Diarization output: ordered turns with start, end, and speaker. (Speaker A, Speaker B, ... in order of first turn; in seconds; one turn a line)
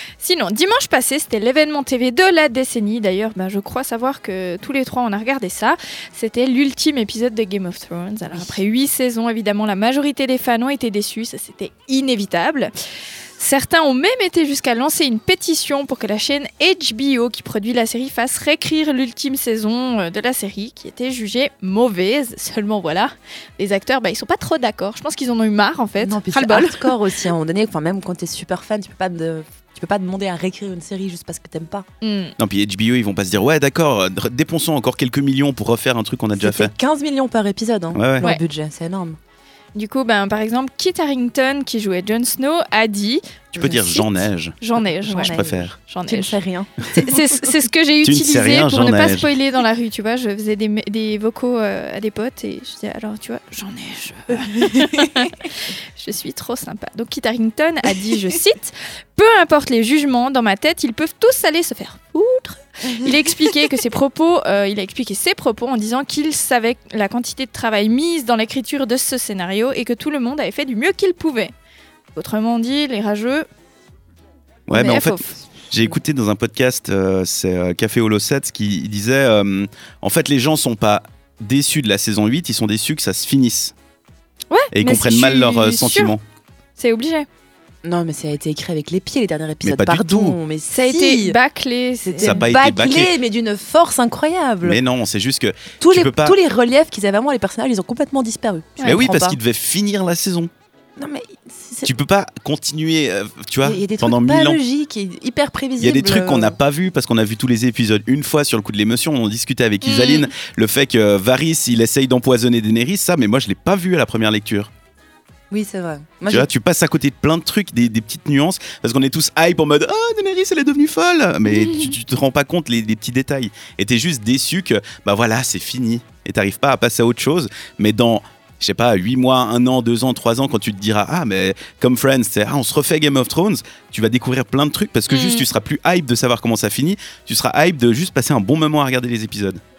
Speaker A: 0.2-12.7
Speaker B: 8.3-8.6
Speaker A: 13.3-27.0
Speaker B: 26.0-31.9
Speaker A: 32.0-32.3
Speaker C: 32.4-36.7
Speaker B: 36.4-39.2
Speaker C: 37.9-38.2
Speaker A: 39.7-46.4
Speaker C: 43.5-44.6
Speaker C: 45.1-45.8
Speaker B: 45.1-47.0
Speaker A: 46.9-71.5
Speaker C: 48.0-49.3
Speaker A: 72.1-73.5
Speaker C: 74.7-83.7
Speaker A: 74.7-75.3
Speaker A: 84.5-86.1
Speaker C: 84.7-86.2
Speaker A: 86.8-87.3
Speaker B: 87.8-91.4
Speaker C: 89.6-90.4
Speaker A: 90.7-92.5
Speaker B: 92.0-94.8
Speaker C: 92.2-93.2
Speaker C: 94.6-96.4
Speaker B: 95.8-99.4
Speaker A: 98.8-99.0
Speaker C: 98.8-100.5
Speaker B: 101.0-101.9
Speaker C: 101.8-104.6
Speaker B: 103.6-106.6
Speaker C: 105.8-114.7
Speaker A: 109.8-110.3
Speaker B: 115.5-116.5
Speaker C: 116.3-139.6
Speaker A: 121.5-121.9
Speaker A: 135.1-135.5